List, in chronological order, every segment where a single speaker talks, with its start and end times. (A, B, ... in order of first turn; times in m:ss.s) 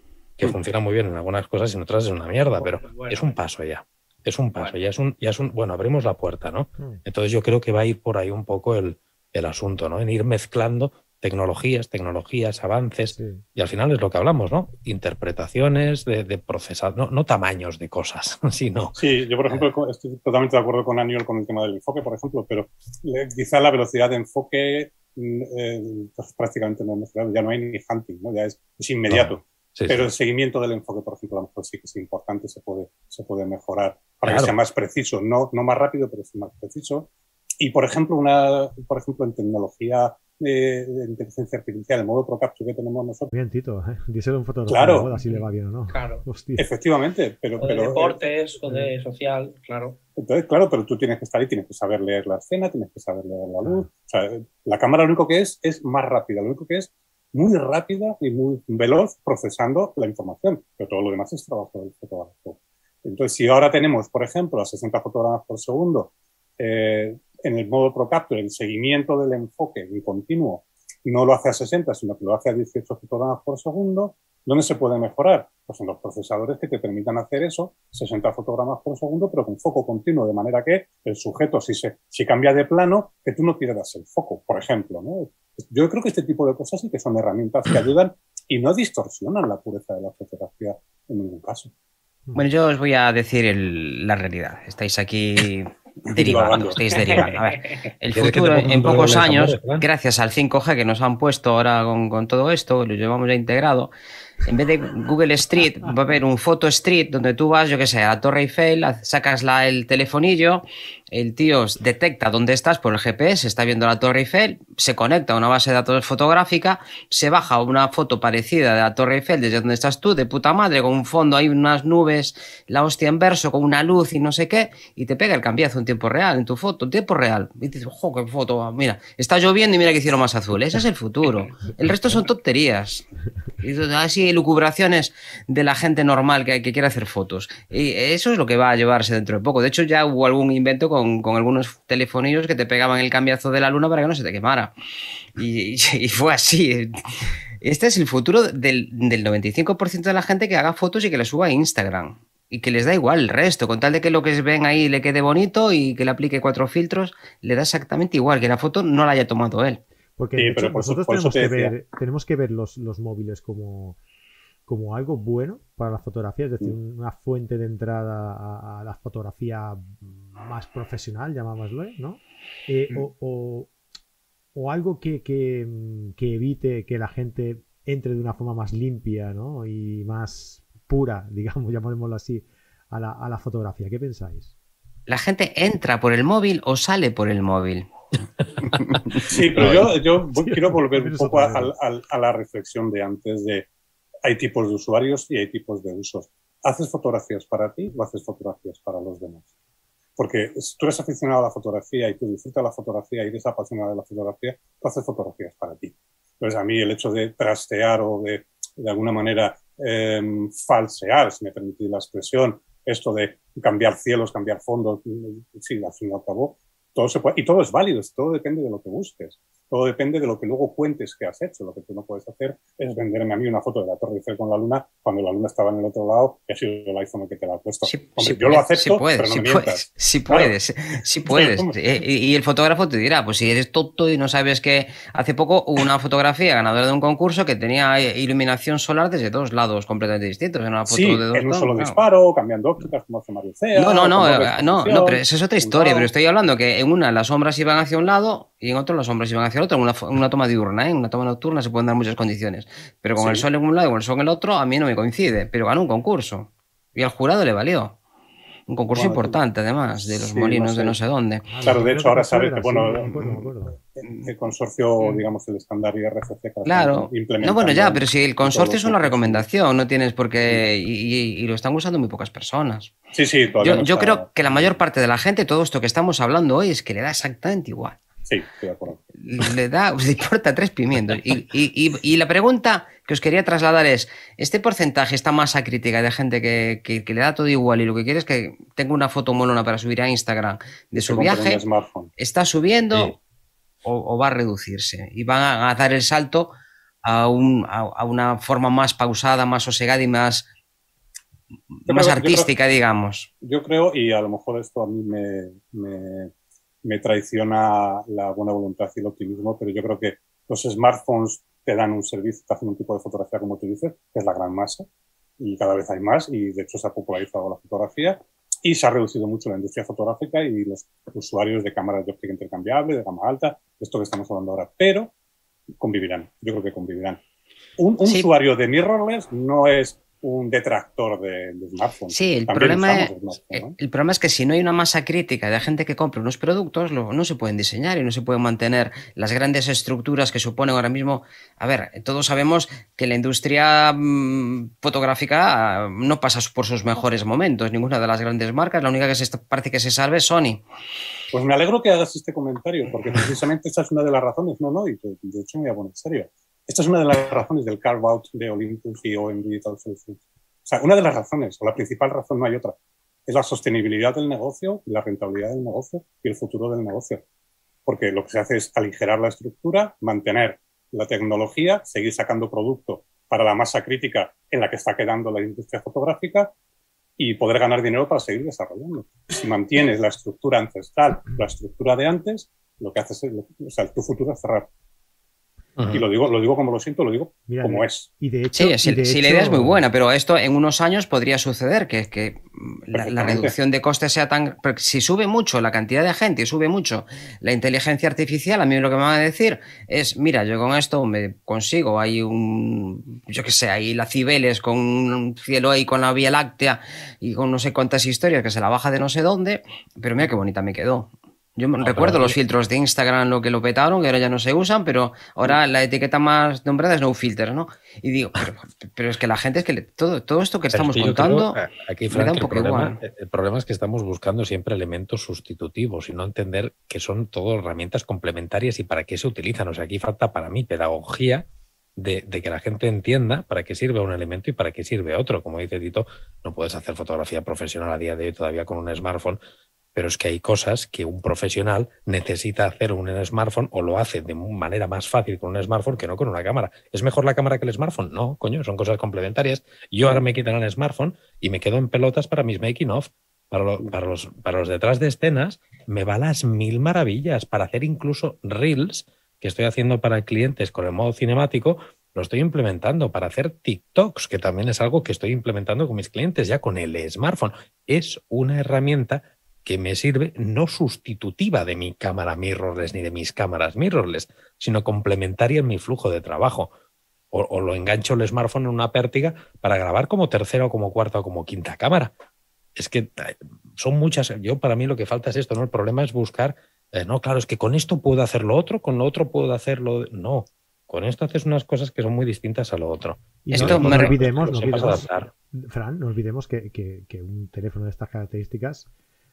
0:00.4-0:19.0 A
0:02.6-0:03.4 B
0:13.0-0:13.4 C
0:19.0-0:43.3 D
0:29.1-0:30.1 A
0:34.2-0:34.6 A
0:43.3-0:46.7 C
0:44.7-0:45.1 D
0:45.2-0:46.2 B
0:46.6-0:48.3 D
0:47.6-0:50.0 B
0:48.6-0:48.9 C
0:50.2-1:31.7 D
0:53.6-0:53.9 C
1:32.3-1:43.9 E
1:36.1-1:37.3 D
1:37.1-1:37.6 B
1:38.1-1:39.9 A
1:44.4-2:13.0 E
2:13.6-2:24.7 E
2:25.4-2:39.8 E
2:40.2-2:44.0 C
2:40.4-2:41.8 D
2:44.7-2:53.7 C
2:54.5-3:04.5 C
3:05.1-3:07.9 E
3:08.8-3:09.2 E
3:09.2-3:13.7 D
3:09.6-3:09.9 A
3:10.3-3:11.7 C
3:14.2-3:19.5 D
3:20.2-3:50.5 D
3:47.8-4:02.0 E
3:51.2-3:51.7 D
4:00.9-4:06.1 D
4:03.7-4:18.0 E
4:13.2-4:13.4 D
4:18.7-4:21.5 E
4:18.9-4:19.4 D
4:20.0-4:21.0 D
4:21.5-4:23.8 C
4:21.6-4:23.3 D
4:24.0-4:29.4 D
4:26.6-4:32.9 E
4:33.1-4:34.7 D
4:33.6-4:38.0 E
4:38.2-4:39.0 D
4:39.2-4:51.6 E
4:50.9-4:52.1 D
4:52.2-4:53.2 E
4:52.9-4:53.2 A
4:53.8-4:56.5 E
4:57.0-5:00.5 E
5:01.8-5:03.3 E
5:01.9-5:02.5 D
5:03.4-5:06.3 D
5:06.8-5:14.8 D
5:15.4-5:25.1 D
5:25.8-5:27.2 D
5:27.8-5:33.8 D
5:28.0-5:28.3 E
5:32.1-5:50.6 E
5:51.3-6:02.7 D
6:03.3-6:07.2 D
6:07.8-6:16.5 D
6:17.2-6:24.7 D
6:25.8-6:26.0 A
6:25.9-6:28.1 D
6:27.5-6:29.8 C
6:28.5-7:01.6 E
6:32.9-6:33.5 D
6:51.8-6:52.4 A
7:00.7-7:19.4 A
7:02.1-7:03.0 E
7:19.9-7:56.7 A
7:57.3-8:02.1 A
8:02.8-8:15.3 A
8:13.4-8:18.9 C
8:13.5-8:14.2 E